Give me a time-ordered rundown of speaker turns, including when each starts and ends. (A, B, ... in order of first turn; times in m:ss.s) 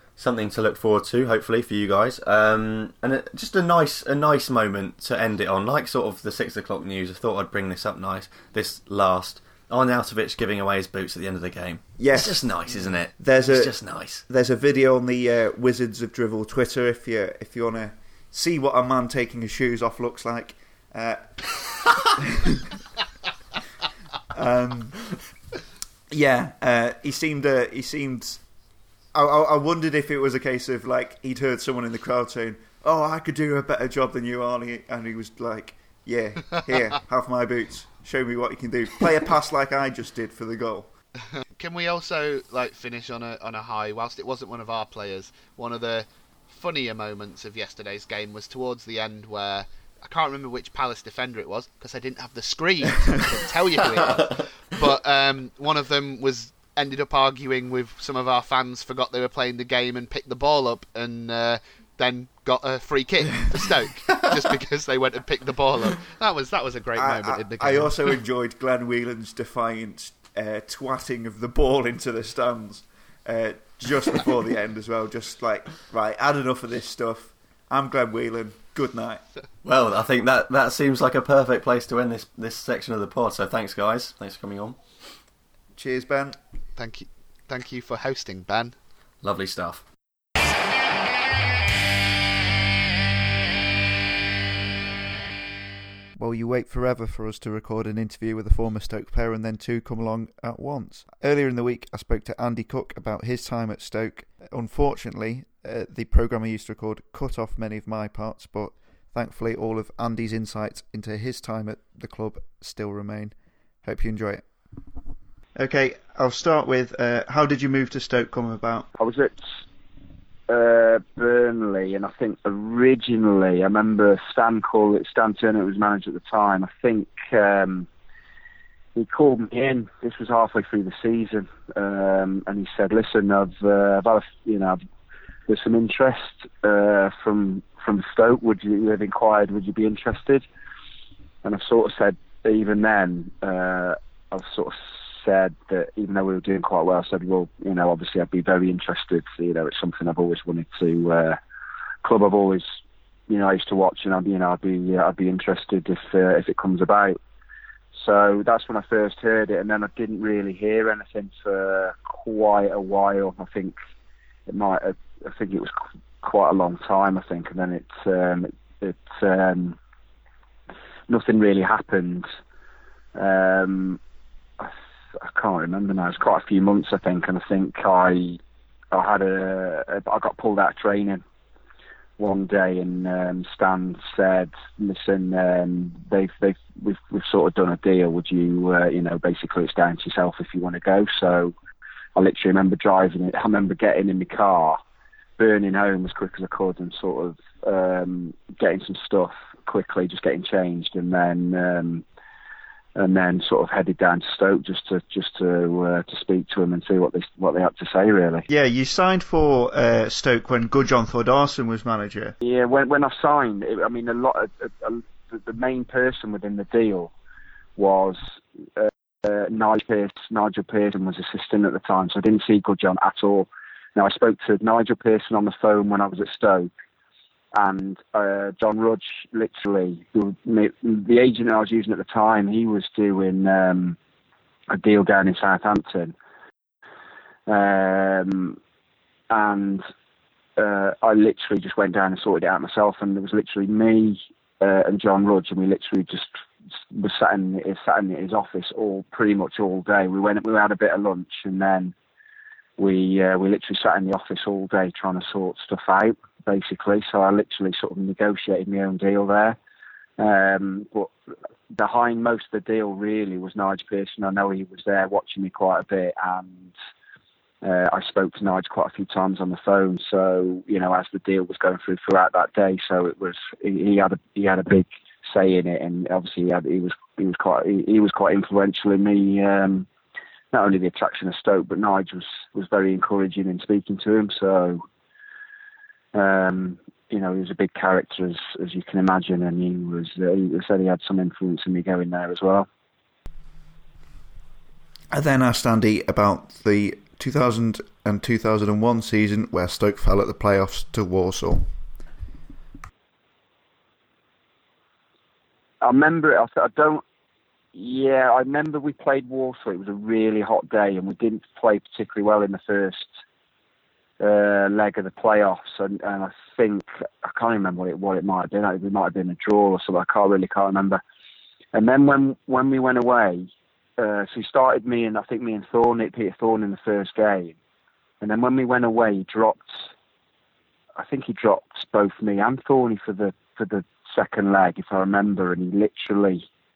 0:00.2-0:14.2 A
0:12.0-0:12.5 B
0:13.2-0:13.7 B
0:14.3-0:21.4 B
0:22.2-0:22.7 B
0:24.3-0:25.0 B
0:26.1-0:28.4 B
0:29.1-0:40.9 B
0:41.5-1:08.0 C
1:07.0-1:19.2 B
1:19.6-1:24.8 A
1:25.8-1:26.4 B
1:26.8-1:28.7 C
1:29.2-1:29.8 A
1:36.2-1:54.4 B
1:55.6-1:58.9 B
1:59.0-1:59.6 D
2:00.5-2:07.9 D
2:08.9-2:14.8 D
2:15.5-2:20.4 D
2:21.4-2:31.4 D
2:32.0-2:32.8 D
2:33.3-2:37.2 D
2:37.9-2:43.8 D
2:44.5-2:49.8 D
2:51.1-2:52.2 D
2:53.1-2:54.0 D
2:54.6-2:58.4 D
2:58.9-3:01.2 D
3:02.2-3:11.5 D
3:12.2-3:14.8 D
3:15.4-3:22.0 D
3:23.0-3:28.5 D
3:28.5-3:32.3 B
3:32.4-3:37.1 D
3:37.8-3:46.7 D
3:47.5-3:54.0 D
3:54.7-3:56.1 D
3:57.5-3:58.6 D
3:59.3-3:59.9 D
4:00.6-4:06.4 D
4:06.9-4:11.9 D
4:12.8-4:19.6 D
4:20.2-4:21.1 D
4:21.7-4:26.7 D
4:27.6-4:39.9 D
4:40.5-4:44.8 D
4:46.1-4:52.7 D
4:55.1-5:01.6 B
5:05.8-5:07.0 D
5:07.7-5:13.1 D
5:14.2-5:21.0 D
5:21.7-5:27.5 D
5:28.2-5:29.9 D
5:31.0-5:36.5 D